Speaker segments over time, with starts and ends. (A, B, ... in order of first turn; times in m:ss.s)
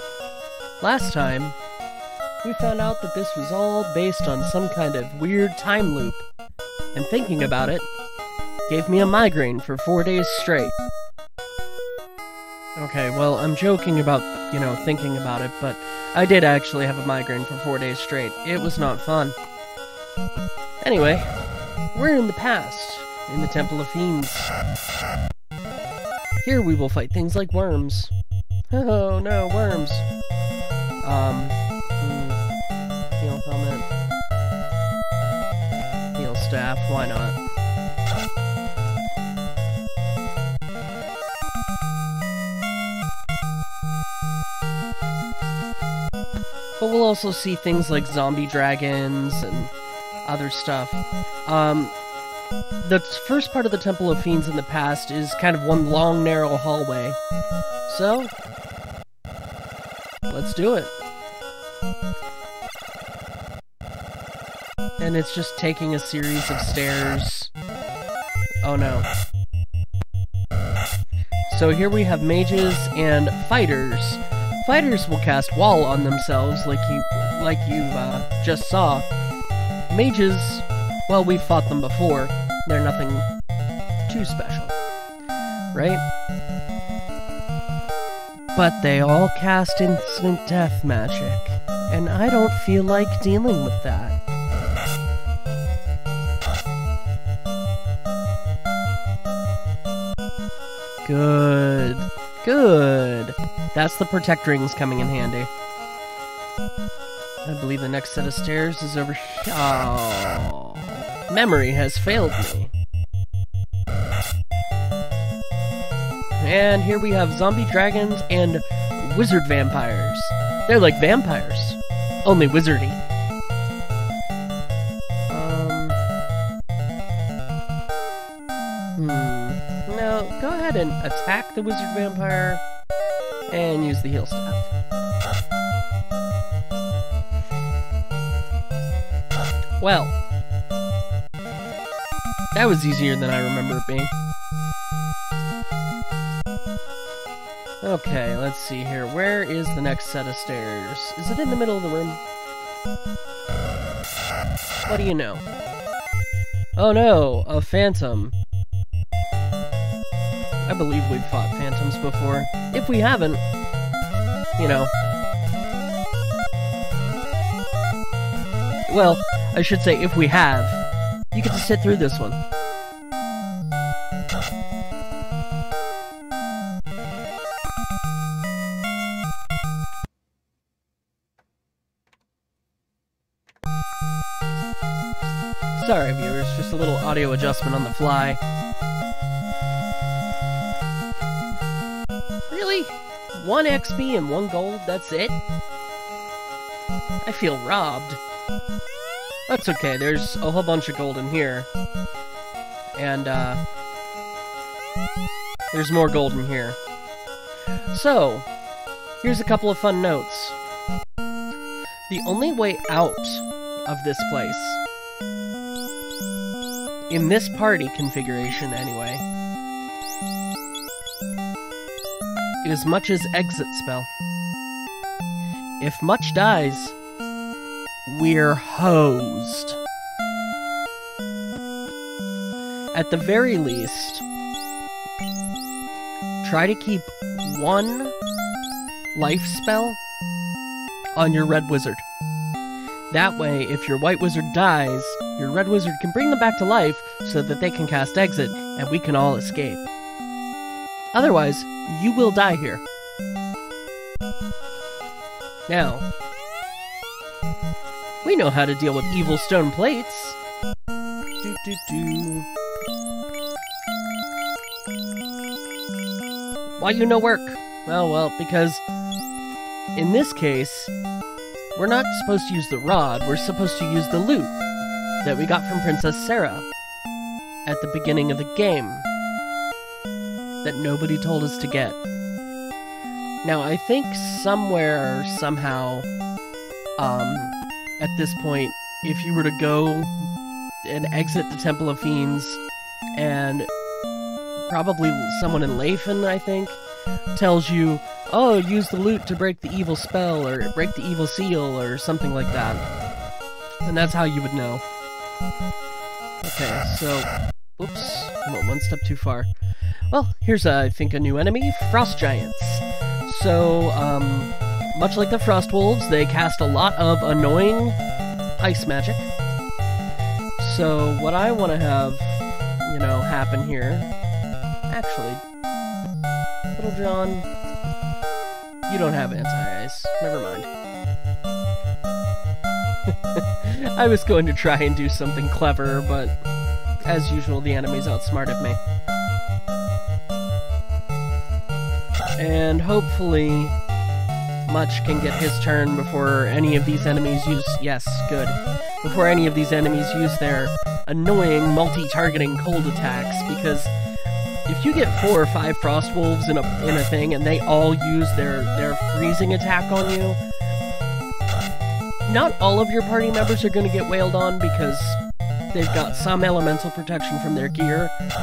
0:00.8-0:01.6 A
0:02.4-0:06.2 A
0:06.9-0:07.9 A
0:08.7-0:10.8 A
0:12.8-0:19.4 A
0:20.8-0:21.3 A
0:21.9-0:24.5 A
0:26.4-0:28.1 A
0:28.7-0:30.0 A
0:31.0-0:32.4 A
0:33.2-0:33.9 A
0:36.1-0:37.4 A
0:46.8-0:49.7 A
0:50.2-0:52.0 A
0:52.8-0:57.2 A
0:57.8-0:58.3 A
1:00.3-1:01.0 A
1:05.0-1:07.5 A
1:08.6-1:09.1 A
1:11.5-1:19.0 A
1:19.9-1:23.3 A
1:24.1-1:24.7 A
1:25.7-1:26.0 A
1:28.5-1:34.2 A
1:41.0-1:45.5 A
1:47.4-1:52.7 A
1:56.4-2:03.0 A
2:05.3-2:06.0 A
2:09.0-2:12.6 A
2:13.5-2:14.7 A
2:19.8-2:20.1 A
2:22.5-2:24.1 A
2:27.8-2:32.2 A
2:34.9-2:35.4 A
2:36.8-2:38.4 A
2:40.7-2:43.4 A
2:44.6-2:44.9 A
2:48.9-2:52.4 A
3:05.8-3:08.4 A
3:12.5-3:15.4 A
3:17.2-3:18.2 A
3:19.5-3:21.7 A
3:23.0-3:23.6 A
3:25.7-3:26.8 A
3:27.9-3:28.5 A
3:29.2-3:30.6 A
3:32.1-3:34.8 A
3:37.1-3:39.2 A
3:42.6-3:44.1 A
3:45.8-3:47.0 A
3:48.0-3:49.8 A
3:52.9-3:54.2 A
3:56.4-3:58.1 A
3:59.1-4:00.0 A
4:01.2-4:02.0 A
4:03.1-4:09.8 A
4:11.1-4:12.8 A
4:15.7-4:16.0 A
4:18.2-4:20.4 A
4:21.4-4:22.5 A
4:26.8-4:28.8 A
4:30.0-4:30.9 A
4:31.8-4:34.5 A
4:35.2-4:36.7 A
4:37.6-4:39.1 A
4:40.6-4:42.0 A
4:43.4-4:46.1 A
4:47.0-4:50.1 A
4:50.8-4:52.6 A
4:53.2-4:53.7 A
4:54.7-4:56.8 A
4:57.3-5:02.8 A
5:03.8-5:04.8 A
5:06.4-5:09.5 A
5:10.1-5:18.0 A
5:18.6-5:19.3 A
5:20.6-5:24.1 A
5:24.9-5:25.4 A
5:26.8-5:27.5 A
5:28.9-5:30.7 A
5:33.1-5:36.4 A
5:37.1-5:38.8 A
5:42.4-5:43.8 A
5:44.6-5:53.9 A
5:54.7-6:00.4 A
6:02.2-6:05.2 A
6:05.7-6:08.1 A